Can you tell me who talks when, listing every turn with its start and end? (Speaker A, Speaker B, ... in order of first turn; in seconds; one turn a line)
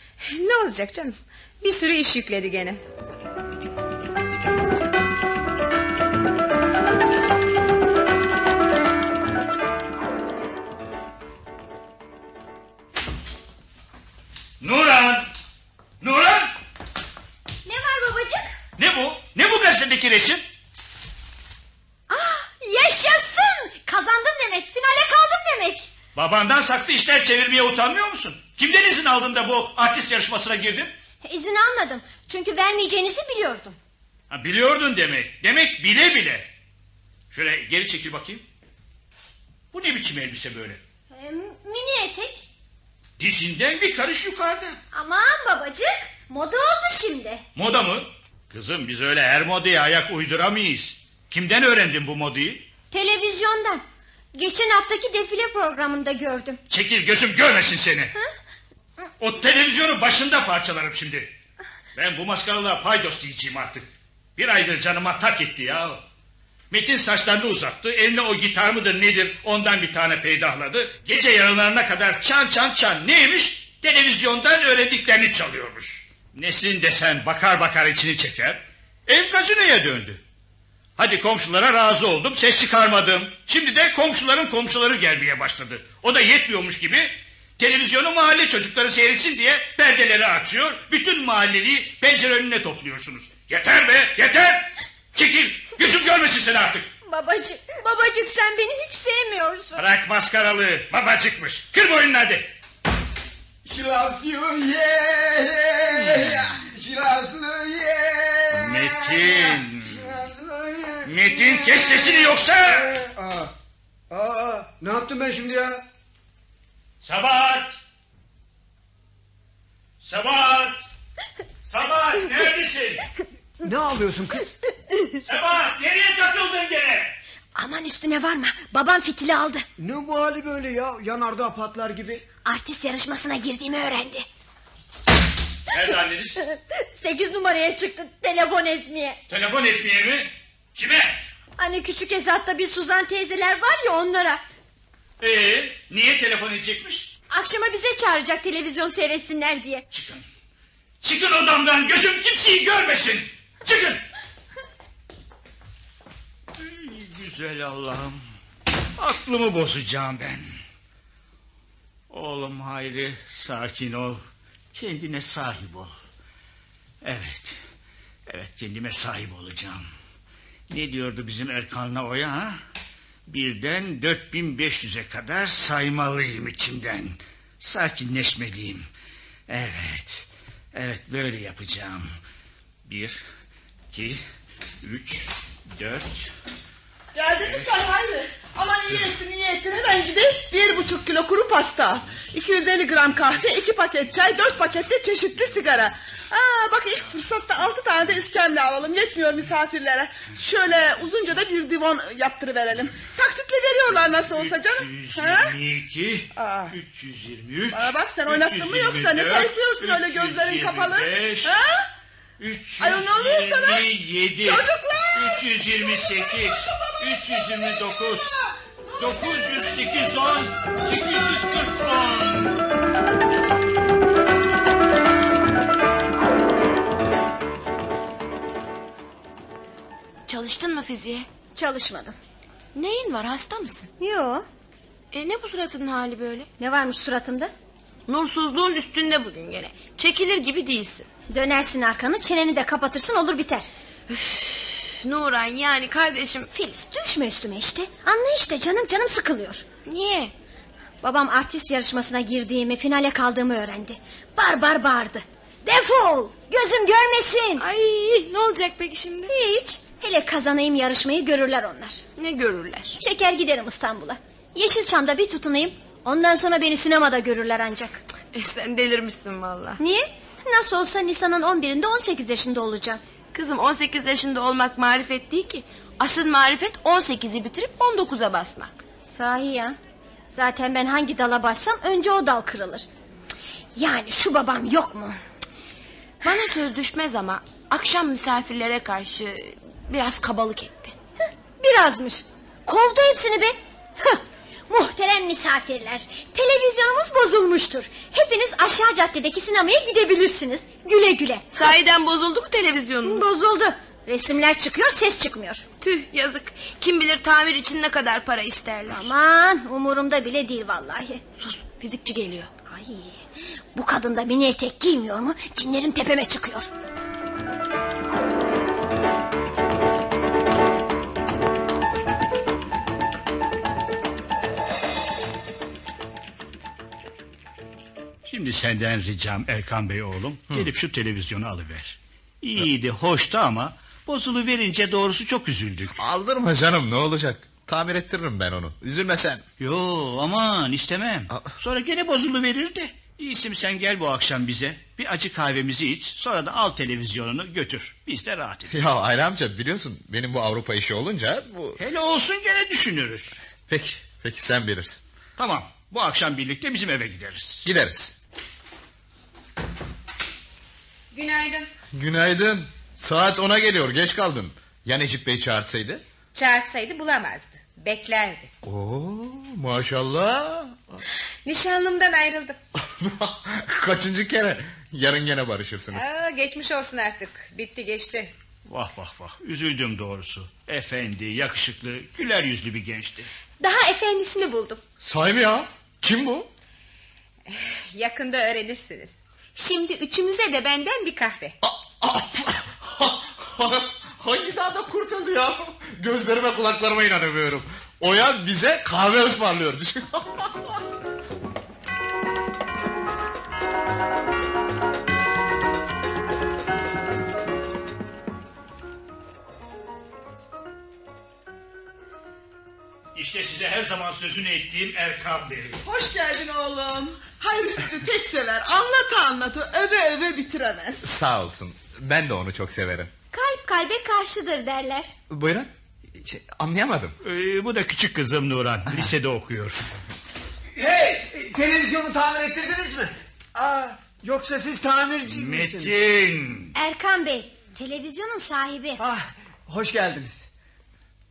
Speaker A: 0.2-2.8
Speaker B: 14.6-15.3
Speaker B: 16.0-16.5
Speaker C: 17.6-18.5
Speaker B: 18.8-20.4
Speaker C: 22.1-25.9
Speaker B: 26.1-30.9
Speaker C: 31.2-33.8
Speaker B: 34.3-36.5
Speaker B: 37.3-38.5
Speaker B: 39.7-40.8
Speaker C: 41.1-42.5
Speaker B: 43.2-44.8
Speaker C: 44.9-47.4
Speaker B: 47.6-52.7
Speaker C: 52.9-53.8
Speaker C: 54.3-56.6
Speaker B: 56.7-58.1
Speaker B: 59.2-61.3
Speaker B: 62.0-66.0
Speaker B: 66.7-80.2
Speaker B: 81.0-96.9
Speaker C: 97.0-99.8
Speaker B: 99.8-102.5
Speaker D: 103.7-113.5
Speaker B: 106.1-106.4
Speaker B: 108.5-110.2
Speaker B: 111.0-113.0
Speaker D: 114.1-115.9
Speaker B: 117.0-117.8
Speaker B: 120.0-120.8
Speaker B: 121.7-123.0
Speaker D: 123.6-124.5
Speaker B: 125.2-127.2
Speaker C: 127.6-129.7
Speaker D: 129.8-132.2
Speaker C: 132.4-134.3
Speaker B: 135.7-136.4
Speaker C: 136.4-139.2
Speaker B: 139.3-141.2
Speaker C: 141.6-144.4
Speaker B: 145.2-147.1
Speaker C: 147.3-149.8
Speaker B: 149.9-150.2
Speaker B: 151.0-154.0
Speaker B: 156.6-158.2
Speaker B: 159.0-160.5
Speaker B: 162.1-164.2
Speaker B: 164.7-165.9
Speaker B: 167.0-167.6
Speaker B: 168.3-169.9
Speaker B: 170.7-172.6
Speaker B: 173.3-178.9
Speaker B: 179.5-182.1
Speaker B: 182.9-183.2
Speaker B: 183.9-184.2
Speaker B: 184.8-186.3
Speaker E: 187.2-205.6
Speaker B: 187.4-187.8
Speaker B: 204.1-211.6
Speaker E: 206.3-206.8
Speaker E: 207.7-211.9
Speaker B: 212.4-218.3
Speaker E: 212.8-217.0
Speaker B: 219.0-222.6
Speaker F: 230.3-231.3
Speaker C: 231.5-232.2
Speaker F: 232.8-233.9
Speaker C: 234.0-234.5
Speaker F: 235.1-236.5
Speaker C: 236.6-237.5
Speaker F: 238.1-241.1
Speaker C: 241.3-243.7
Speaker F: 244.1-246.5
Speaker C: 246.5-249.7
Speaker F: 249.8-250.3
Speaker C: 251.0-257.6
Speaker F: 257.6-259.3
Speaker C: 259.3-262.0
Speaker F: 262.2-263.0
Speaker C: 263.0-268.0
Speaker F: 268.3-269.8
Speaker C: 269.8-273.0
Speaker F: 273.3-278.9
Speaker C: 279.0-279.8
Speaker C: 280.3-282.9
Speaker C: 283.8-285.2
Speaker F: 286.2-290.9
Speaker C: 291.6-301.5
Speaker F: 301.5-303.3
Speaker C: 303.0-305.6
Speaker F: 305.8-309.1
Speaker C: 308.9-311.2
Speaker F: 311.4-312.5
Speaker C: 312.7-313.2
Speaker C: 313.7-316.7
Speaker B: 328.2-336.0
Speaker G: 336.0-339.4
Speaker B: 339.6-348.8
Speaker G: 348.7-351.8
Speaker B: 351.8-353.4
Speaker G: 353.7-355.0
Speaker B: 355.4-357.6
Speaker G: 357.6-358.2
Speaker A: 361.1-361.7
Speaker G: 361.9-366.0
Speaker A: 366.3-368.5
Speaker G: 368.6-371.0
Speaker A: 371.4-372.6
Speaker G: 372.8-376.1
Speaker A: 375.9-378.3
Speaker B: 378.7-383.3
Speaker A: 383.6-384.8
Speaker G: 385.0-386.5
Speaker A: 387.5-391.6
Speaker G: 391.6-400.8
Speaker B: 413.1-415.8
Speaker E: 415.8-421.1
Speaker G: 421.0-423.1
Speaker C: 423.3-425.1
Speaker G: 425.3-427.2
Speaker B: 427.2-429.8
Speaker D: 430.8-435.9
Speaker B: 435.3-436.8
Speaker C: 436.7-439.0
Speaker D: 439.0-440.5